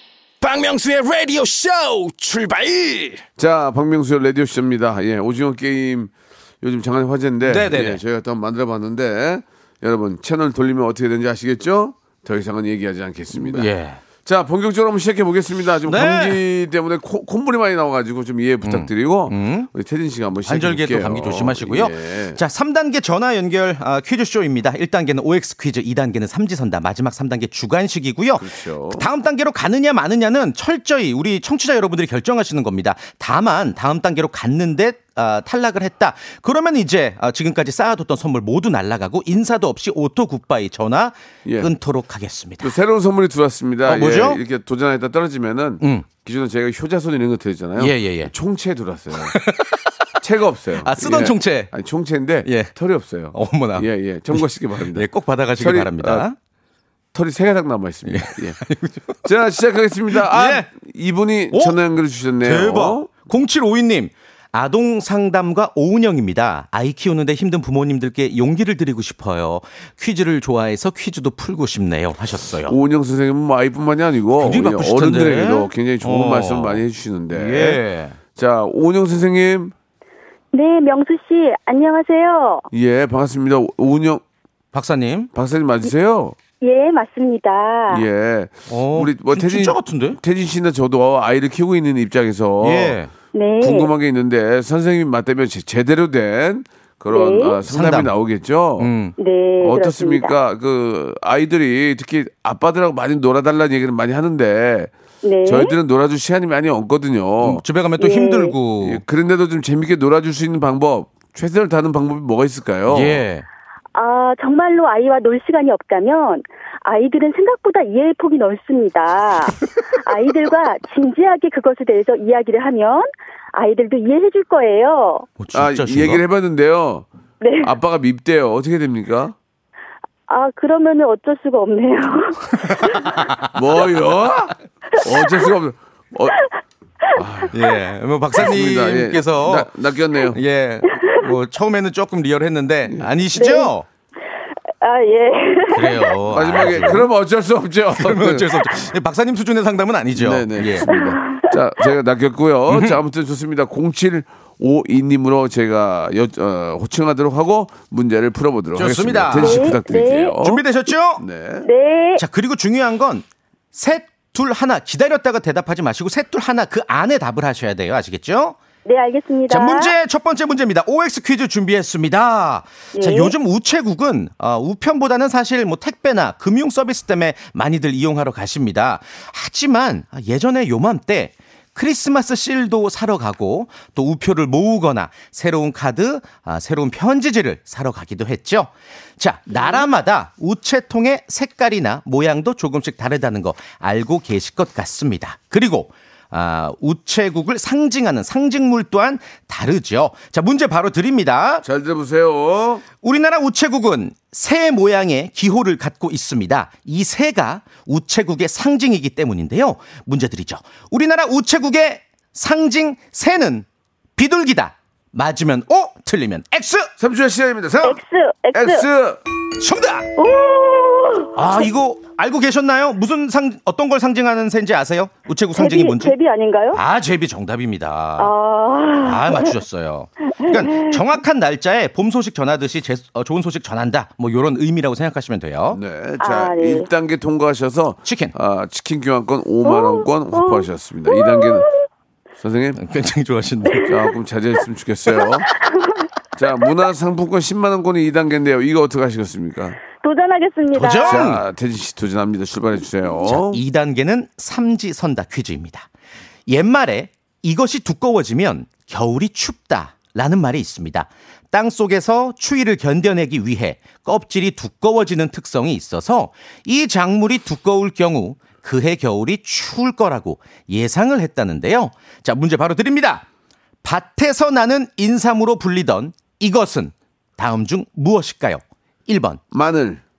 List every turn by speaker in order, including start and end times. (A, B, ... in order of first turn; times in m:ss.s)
0:00.4-0:03.2 A
0:03.4-0:13.7 B
0:07.4-0:08.0 C
0:13.4-0:14.0 C
0:14.2-0:22.4 B
0:15.9-0:16.4 C
0:18.6-0:19.7 C
0:20.4-0:42.7 C
0:28.4-0:29.1 B
0:41.4-0:41.7 B
0:42.6-0:49.4 B
0:43.8-0:44.4 C
0:47.8-0:48.3 C
0:49.2-0:49.9 C
0:50.2-0:56.3 B
0:50.8-0:51.7 C
0:52.4-0:52.7 C
0:53.3-0:56.3 C
0:57.1-0:58.6 B
0:58.0-0:59.2 C
0:59.2-1:03.1 B
1:00.1-1:00.6 C
1:01.5-1:01.8 C
1:02.4-1:12.8 C
1:12.6-1:17.8 B
1:14.4-1:18.2 C
1:18.3-1:19.7 B
1:20.5-1:22.6 D
1:22.7-1:24.2 B
1:24.7-1:25.3 C
1:25.3-1:26.4 B
1:26.6-1:28.0 D
1:27.9-1:33.0 B
1:28.7-1:30.2 C
1:32.6-1:33.1 C
1:33.3-1:33.9 D
1:33.6-1:38.9 B
1:37.1-1:37.6 D
1:37.6-1:38.1 C
1:38.8-1:39.1 C
1:39.2-1:40.3 D
1:39.6-1:44.9 B
1:45.2-1:45.7 D
1:45.4-1:47.6 B
1:47.4-1:49.0 C
1:48.0-1:48.5 D
1:48.8-1:53.2 B
1:52.9-1:53.4 C
1:53.9-2:05.3 D
2:05.4-2:06.2 C
2:05.5-2:07.0 B
2:07.4-2:07.7 D
2:07.6-2:09.4 B
2:10.3-2:13.0 D
2:12.6-2:13.5 C
2:13.5-2:16.4 B
2:17.1-2:17.5 B
2:17.5-2:19.7 C
2:18.3-2:20.4 B
2:20.3-2:23.8 C
2:23.3-2:23.7 D
2:24.8-2:26.1 D
2:25.7-2:27.1 C
2:26.3-2:28.6 B
2:28.0-2:31.0 C
2:30.2-2:40.6 B
2:30.9-2:31.5 D
2:32.7-2:33.0 C
2:38.7-2:39.8 C
2:39.3-2:40.3 D
2:40.4-2:41.2 C
2:41.2-2:41.7 B
2:41.6-2:42.2 D
2:42.2-2:48.6 C
2:48.8-2:49.9 D
2:49.5-3:21.6 C
2:53.0-2:53.3 D
3:21.6-3:22.8 B
3:23.0-3:33.6 C
3:34.2-3:36.9 C
3:37.0-3:38.0 B
3:37.8-3:38.8 D
3:38.5-3:39.2 B
3:39.6-3:40.1 C
3:40.2-3:41.7 D
3:41.3-3:46.1 C
3:45.6-3:46.8 D
3:46.7-3:48.3 C
3:48.2-3:49.5 D
3:49.0-3:55.8 C
3:50.4-3:51.0 D
3:55.7-4:01.7 B
3:56.2-3:56.9 D
3:58.0-3:58.3 C
3:59.6-4:01.6 D
4:02.4-4:02.8 B
4:02.8-4:03.9 C
4:03.8-4:05.5 B
4:05.1-4:06.1 D
4:06.4-4:09.8 B
4:10.0-4:11.2 D
4:10.7-4:11.4 C
4:11.0-4:13.6 B
4:13.2-4:15.9 C
4:16.5-4:33.2 C
4:33.8-4:39.4 C
4:39.5-4:40.0 B